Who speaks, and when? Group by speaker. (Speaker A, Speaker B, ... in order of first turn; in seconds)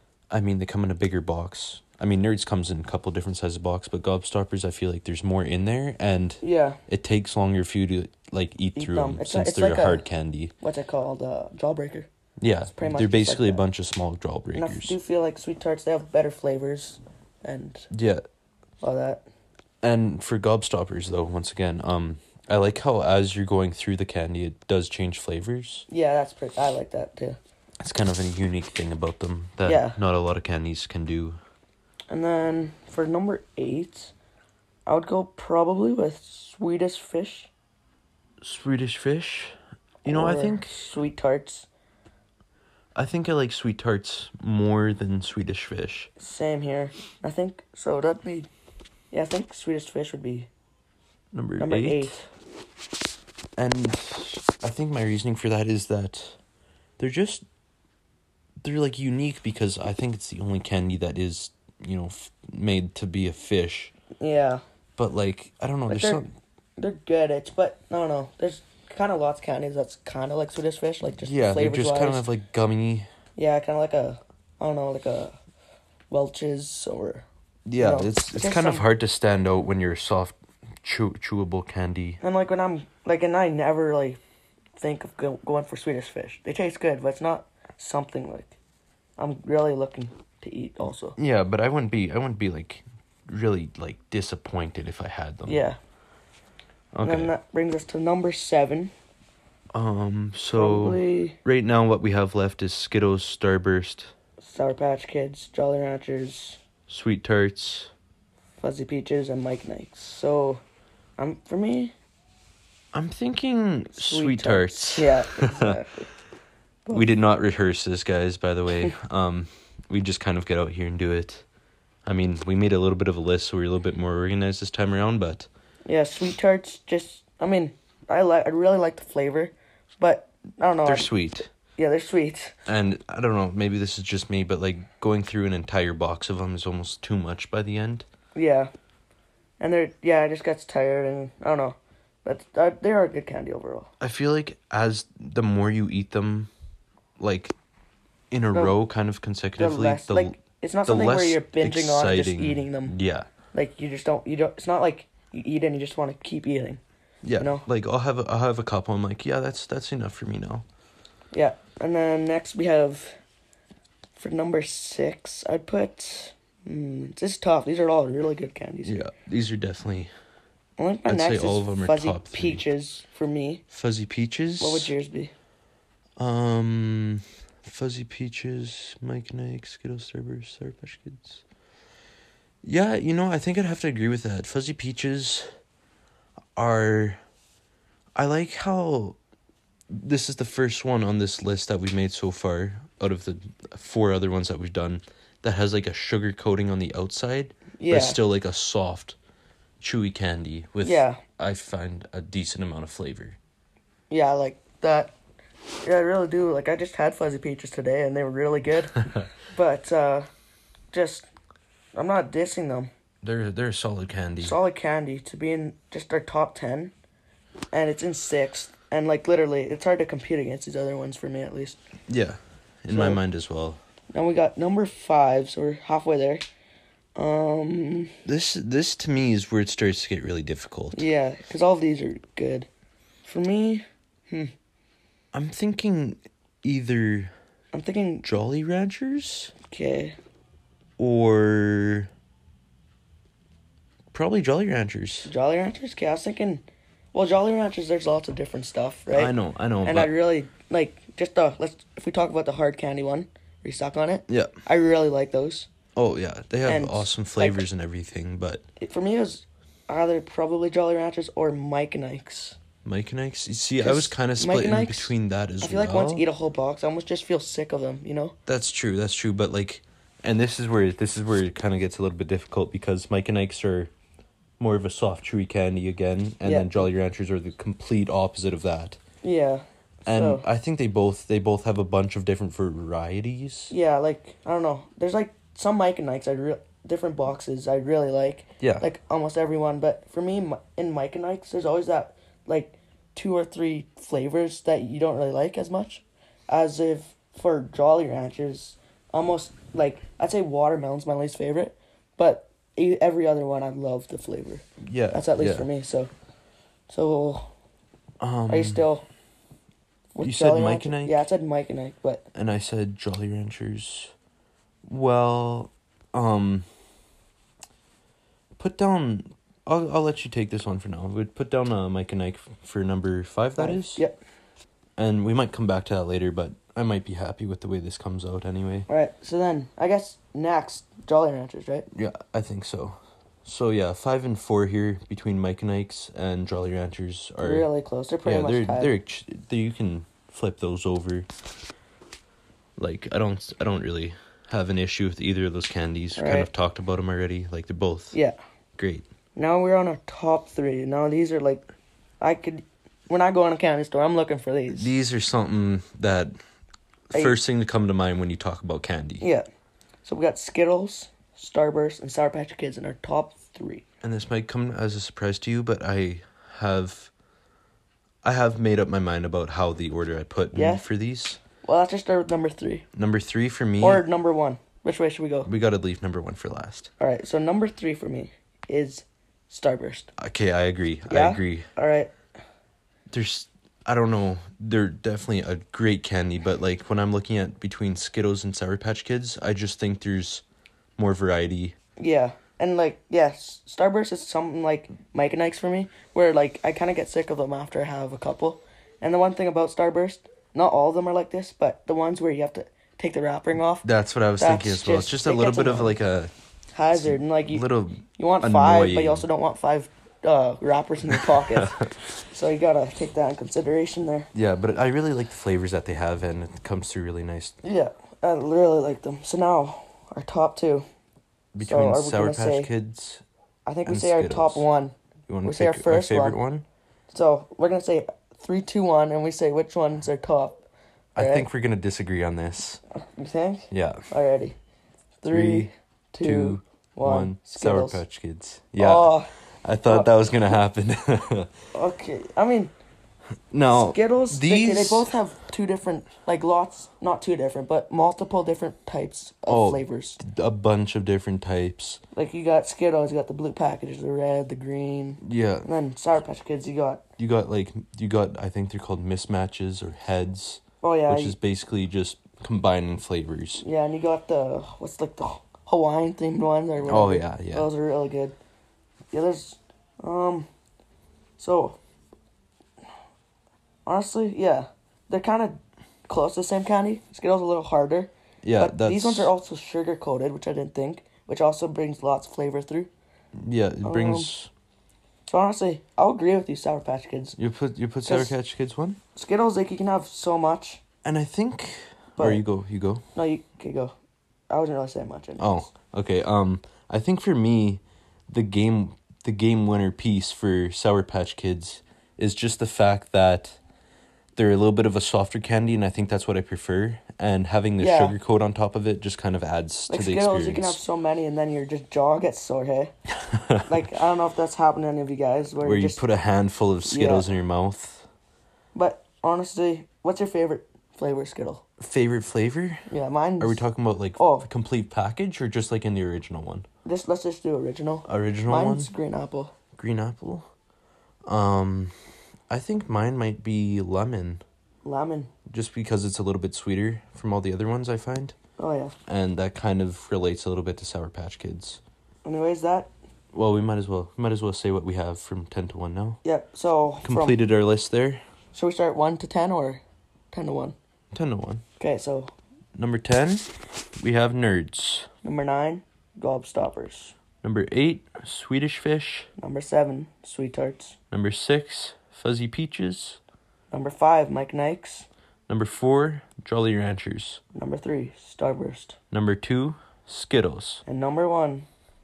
Speaker A: 0.3-10.5, 12.4-15.0, 17.9-18.2, 19.8-25.9, 27.8-31.4, 38.4-40.8, 42.9-46.1, 51.3-52.2, 53.6-56.4, 57.0-57.4, 58.6-63.9, 65.0-66.3, 71.2-73.1, 77.7-82.2, 91.2-95.7, 96.9-97.3, 99.7-104.1, 106.9-107.9, 112.9-115.8, 116.9-121.5, 122.0-125.5, 130.8-131.5, 132.7-138.1, 144.0-146.5, 147.2-147.5, 148.3-153.3, 157.2-160.6, 168.8-170.1, 171.1-172.7, 173.7-174.9, 176.2-181.4, 182.6-185.5, 186.6-187.2, 188.1-189.2, 189.9-199.2, 199.8-203.4, 213.2-214.6, 222.1-223.8, 228.2-231.1, 235.3-237.3, 238.2-239.5, 241.0-242.1, 244.1-245.3, 249.1-250.1, 254.3-254.6, 255.9-258.6, 262.8-266.2, 268.4-273.9, 274.6-279.0, 280.1-283.7, 288.6-288.8, 304.8-305.7, 308.2-308.8, 310.2-311.2, 312.3-314.1, 314.8-316.7, 318.6-324.0, 325.0-328.9, 331.9-337.7, 338.2-341.3, 342.8-348.1, 348.8-349.1, 354.7-356.3, 357.1-359.2, 364.0-367.1, 368.2-371.4, 372.9-374.0, 375.4-376.9, 380.2-381.7, 383.1-390.4, 391.0-391.8, 403.8-406.3, 406.9-409.2, 411.1-411.9, 414.3-417.6, 421.5-423.2, 423.9-424.6, 425.3-426.6, 431.1-432.8, 433.7-434.1, 435.3-435.7, 436.2-441.5, 443.5-445.1, 449.5-452.0, 455.2-455.7, 457.2-463.6, 466.8-467.7, 478.4-479.3, 483.3-484.5, 487.4-489.0, 491.0-493.0, 495.4-503.6, 504.3-510.8, 513.2-513.6, 515.6-518.1, 521.8-522.9, 523.4-526.7, 528.0-528.9, 529.7-530.5, 531.2-531.9, 532.5-534.4, 535.5-538.4, 539.1-541.8, 543.3-546.2, 547.0-548.2, 551.1-551.6, 552.8-555.1, 557.4-559.3, 561.1-563.2, 565.5-567.4, 569.1-570.8
Speaker B: 6.4-6.8, 8.8-10.0, 10.6-12.1, 12.7-13.6, 14.5-17.9, 18.8-19.2, 25.9-27.4, 29.6-30.0, 32.1-34.1, 34.9-37.5, 40.0-41.7, 46.2-48.5, 49.1-50.5, 51.6-52.2, 64.2-64.6, 65.9-72.3, 73.4-75.4, 76.1-77.2, 77.8-78.8, 82.2-84.2, 84.8-88.5, 89.2-91.2, 95.5-95.8, 97.0-98.9, 100.5-101.4, 104.4-106.6, 108.6-110.6, 111.2-111.9, 113.9-116.1, 125.8-131.1, 131.8-132.6, 138.3-138.7, 139.6-143.9, 149.6-152.9, 153.5-156.8, 157.4-157.6, 161.3-163.2, 164.2-169.0, 170.8-173.6, 174.6-175.3, 197.8-198.2, 200.8-201.2, 204.1-205.2, 205.8-210.3, 210.9-211.3, 211.9-212.9, 214.4-216.9, 217.7-221.8, 222.9-223.2, 224.1-226.4, 227.2-228.2, 230.9-232.7, 233.2-234.5, 237.7-238.2, 239.7-240.2, 245.2-255.7, 256.6-257.6, 258.8-262.6, 263.8-268.4, 276.4-276.9, 279.2-280.4, 283.7-306.1, 306.9-307.5, 308.5-309.1, 310.1-312.2, 323.6-324.2, 328.9-331.9, 337.4-338.9, 346.1-346.5, 349.3-351.7, 352.2-354.9, 357.1-357.4, 359.2-359.5, 360.0-363.8, 370.5-370.8, 371.6-372.9, 373.8-375.5, 377.0-380.1, 381.1-382.1, 392.0-403.9, 404.4-405.9, 406.7-411.8, 412.3-414.3, 417.6-420.9, 421.6-422.7, 423.6-426.4, 427.1-430.6, 431.1-431.5, 432.9-434.6, 435.2-438.0, 438.8-439.3, 441.7-442.7, 443.7-450.2, 452.1-457.0, 460.8-461.4, 463.6-468.4, 469.1-470.5, 471.4-471.8, 473.9-482.9, 483.8-484.3, 485.3-487.4, 488.1-488.3, 489.1-490.8, 492.2-492.4, 493.1-493.9, 494.5-495.6, 507.8-508.2, 509.9-512.9, 513.6-516.0, 516.8-517.3, 518.7-521.6, 522.9-523.6, 524.1-524.5, 526.8-529.5, 534.8-535.3, 538.6-538.9, 542.2-542.9, 546.2-547.4, 548.5-550.8, 551.8-552.3, 555.2-557.1, 559.4-561.0, 563.7-565.1, 567.5-569.0, 570.9-571.7